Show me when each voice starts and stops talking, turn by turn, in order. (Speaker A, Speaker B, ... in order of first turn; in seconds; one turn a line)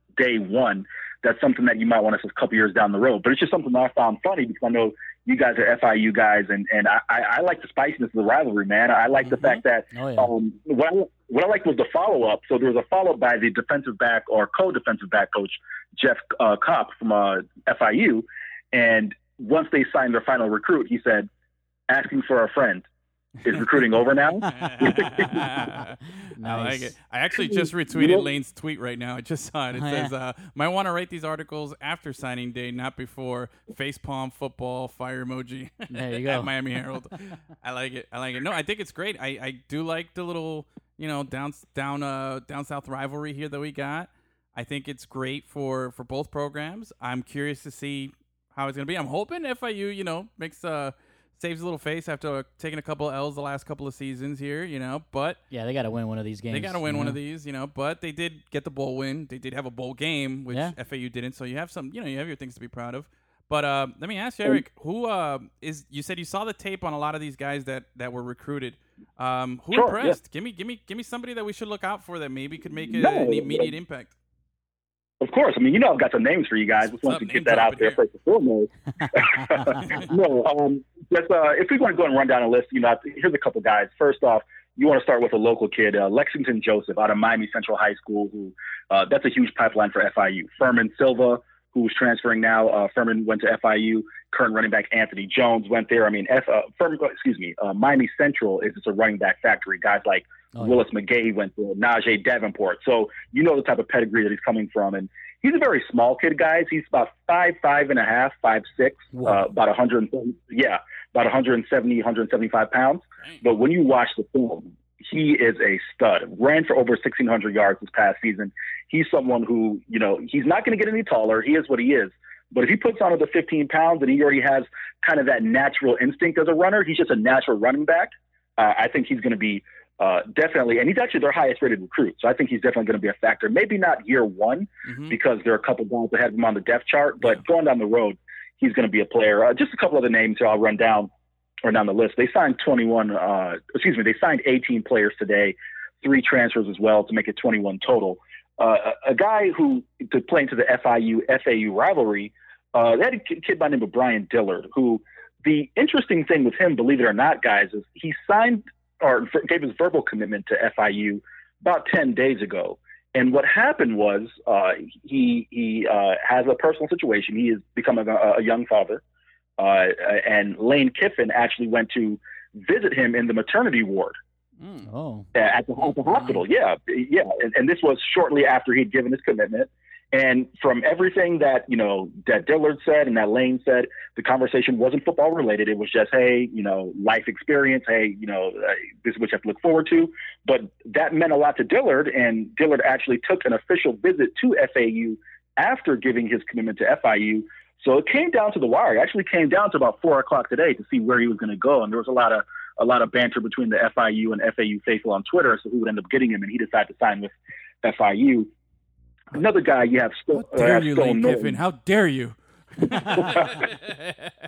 Speaker A: 0.2-21.3
Speaker B: 9.3-9.6
Speaker C: 9.9-10.3
Speaker A: 21.9-22.9
Speaker A: 23.4-25.5
Speaker C: 24.4-26.9
Speaker B: 24.4-55.4
Speaker A: 27.4-28.2
Speaker C: 29.8-30.1
Speaker C: 35.9-36.5
Speaker C: 55.5-57.2
Speaker B: 56.5-74.2
Speaker A: 69.7-70.2
Speaker A: 72.9-73.7
Speaker A: 75.2-141.1
Speaker B: 76.9-78.0
Speaker B: 79.8-80.1
Speaker C: 109.1-109.4
Speaker B: 134.9-135.1
Speaker A: 141.6-169.0
Speaker A: 169.6-174.2
Speaker B: 174.6-174.9
Speaker C: 174.9-175.3
Speaker A: 175.3-208.5
Speaker B: 176.1-176.4
Speaker A: 209.3-211.6
Speaker B: 210.3-214.3
Speaker A: 213.1-213.7